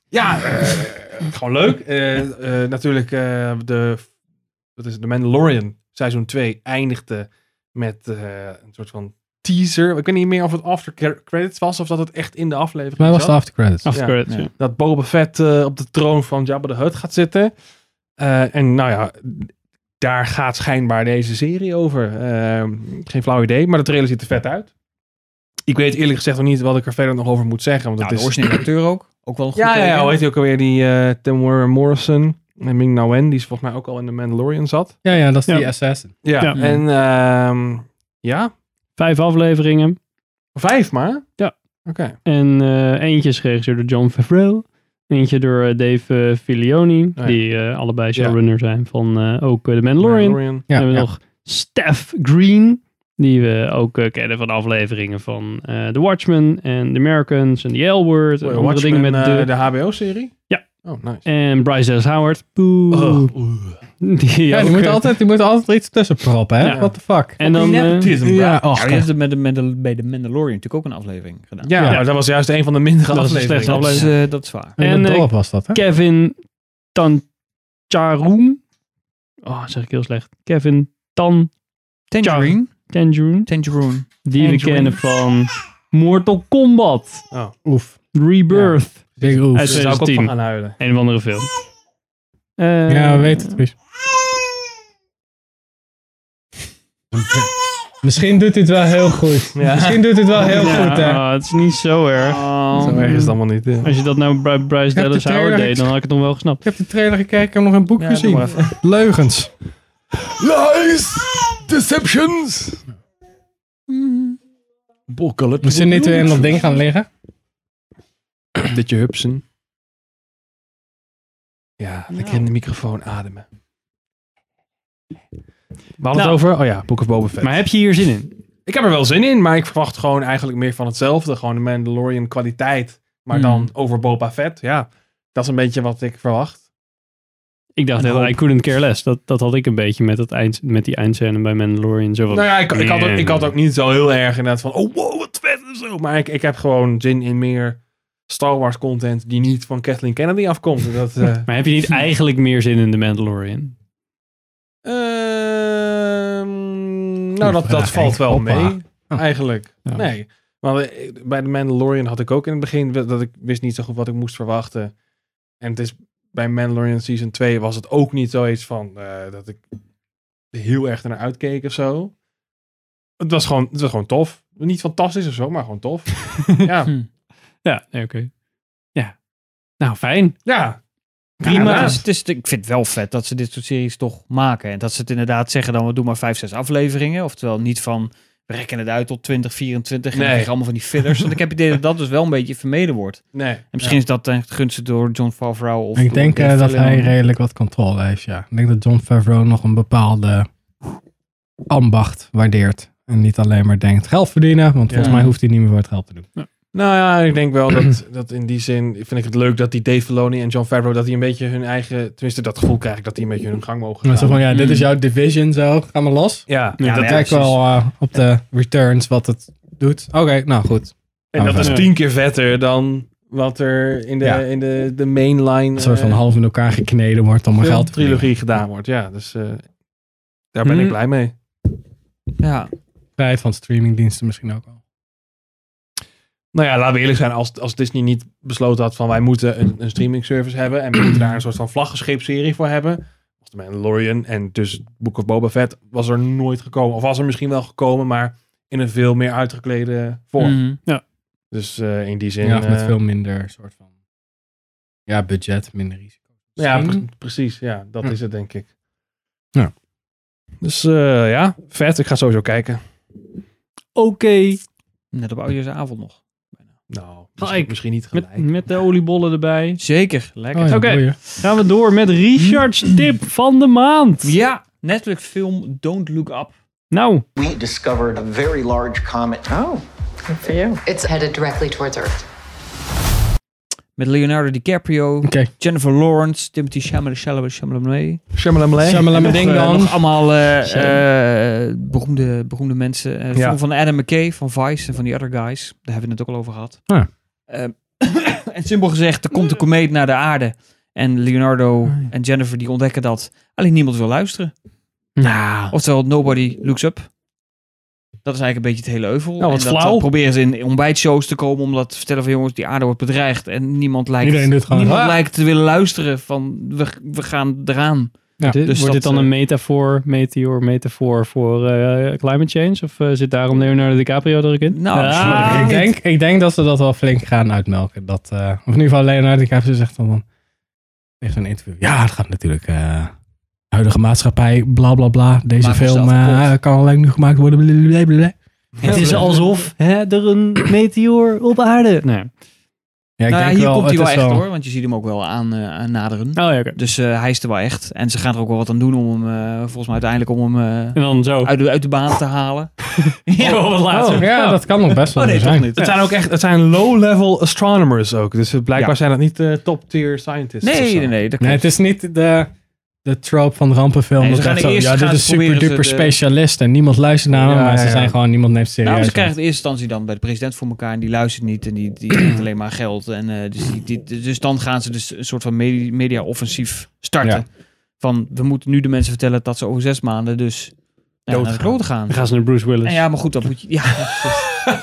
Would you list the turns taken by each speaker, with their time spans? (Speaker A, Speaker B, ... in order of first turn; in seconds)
Speaker A: 0.1-4.1, 4.8-17.5, 18.2-24.7, 25.7-28.6, 29.6-35.0, 36.2-38.5, 40.5-41.3, 41.9-42.1, 50.0-50.6, 58.4-61.2, 62.9-63.8, 66.7-68.6, 71.6-74.1, 88.5-90.8, 99.5-100.7, 102.8-103.9, 110.4-112.8, 115.1-116.7, 118.6-119.4, 121.8-123.5, 126.0-127.6, 128.7-136.6, 138.0-138.4, 142.3-151.5, 154.8-164.9, 165.6-169.6, 170.5-172.1, 173.2-176.9, 180.4-180.8, 181.4-182.0, 190.1-190.5, 193.3-194.0, 204.9-205.2, 206.7-214.4, 216.5-217.5, 221.3-226.2, 227.6-229.7, 230.5-231.3, 236.5-250.8, 251.5-252.9, 256.6-258.7, 260.6-262.8, 266.9-268.5, 288.4-289.4, 309.4-310.1, 338.8-339.3, 353.9-354.3, 355.8-361.1, 367.3-368.2, 381.3-381.8
Speaker B: 13.0-13.9, 35.0-36.1, 50.7-51.1, 64.5-67.4, 68.2-69.1, 74.8-75.8, 87.6-88.0, 89.2-89.9, 92.9-93.7, 97.1-101.2, 102.8-103.3, 104.9-105.9, 106.6-109.5, 115.6-117.1, 157.4-159.2, 195.9-200.5, 201.7-206.3, 214.1-221.9, 225.8-228.3, 233.2-234.8, 252.4-253.8, 255.1-257.1, 270.5-271.2, 285.2-285.5, 288.8-290.0, 314.2-315.1, 325.2-330.2, 331.2-333.1, 333.7-338.4, 338.9-339.2, 343.2-344.4, 354.2-355.7, 361.4-362.5, 363.1-369.3
Speaker C: 13.9-14.5, 39.0-40.0, 42.2-59.5, 61.2-63.3, 64.0-65.0, 67.4-68.1, 73.1-74.1, 74.8-76.4, 77.0-77.2, 77.9-78.6, 79.5-81.5, 82.2-83.5, 84.2-87.2, 88.1-91.5, 92.6-93.6, 100.5-102.4, 103.8-106.6, 126.1-126.4, 127.4-128.3, 137.8-143.5, 151.4-153.8, 177.6-178.3, 179.8-180.4, 181.4-182.0, 214.5-214.8, 221.6-221.9, 230.6-231.0, 263.9-264.6, 267.4-269.8, 270.7-274.3, 276.9-277.2, 290.7-291.0, 305.2-305.8, 318.5-325.8, 338.8-342.3, 346.4-346.8, 350.9-351.5, 353.4-354.6, 382.1-383.1
Speaker D: 28.0-30.2, 36.5-36.8, 68.7-71.8, 73.6-74.8, 82.1-82.9, 83.5-84.9, 102.2-103.1, 108.0-108.7, 113.9-114.4, 122.1-122.4, 133.3-133.7, 181.4-197.1, 204.9-205.3, 216.8-217.6, 232.4-232.7, 250.4-250.8, 265.1-266.2, 269.8-271.1, 274.2-276.5, 284.0-288.3, 289.1-296.9, 297.5-304.5, 305.7-307.1, 308.2-319.3, 324.7-325.9, 335.6-336.5, 343.3-352.8, 353.3-354.1, 355.1-356.0, 360.6-361.7, 364.2-366.2, 368.8-382.2, 382.8-384.4
Speaker E: 277.4-279.5
Speaker F: 279.5-282.2